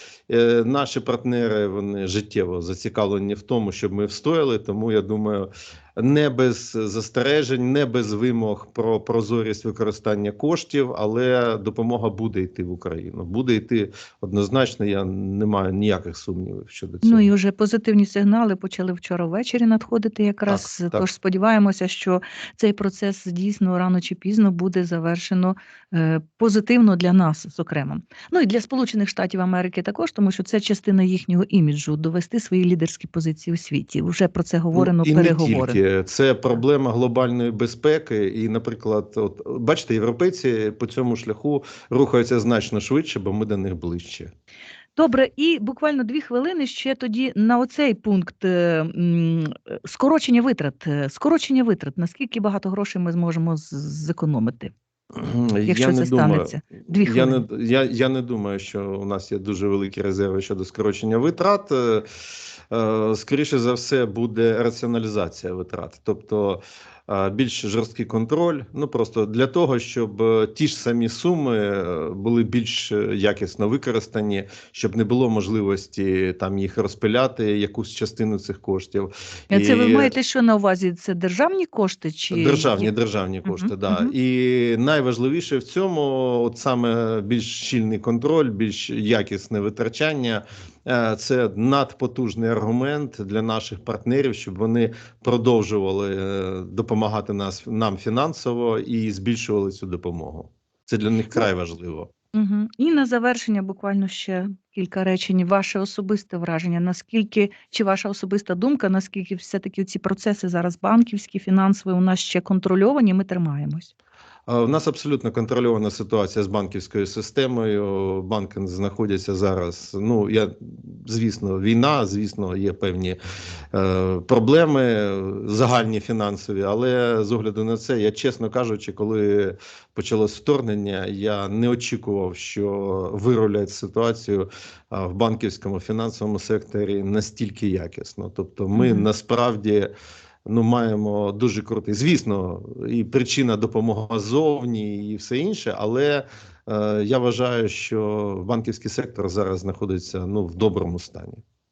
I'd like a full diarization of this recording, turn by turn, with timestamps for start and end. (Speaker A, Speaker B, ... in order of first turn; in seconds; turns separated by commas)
Speaker A: 0.3-17.3, Speaker B: 17.0-35.8, Speaker A: 20.5-21.1, Speaker A: 34.8-44.3, Speaker B: 45.0-54.7, Speaker A: 55.2-62.1, Speaker B: 55.7-57.4, Speaker A: 62.7-80.1, Speaker B: 79.5-82.9, Speaker A: 82.3-102.1, Speaker B: 83.5-84.1, Speaker B: 102.3-113.9, Speaker A: 114.5-123.2, Speaker A: 123.7-139.9, Speaker B: 138.8-139.1, Speaker A: 140.5-151.4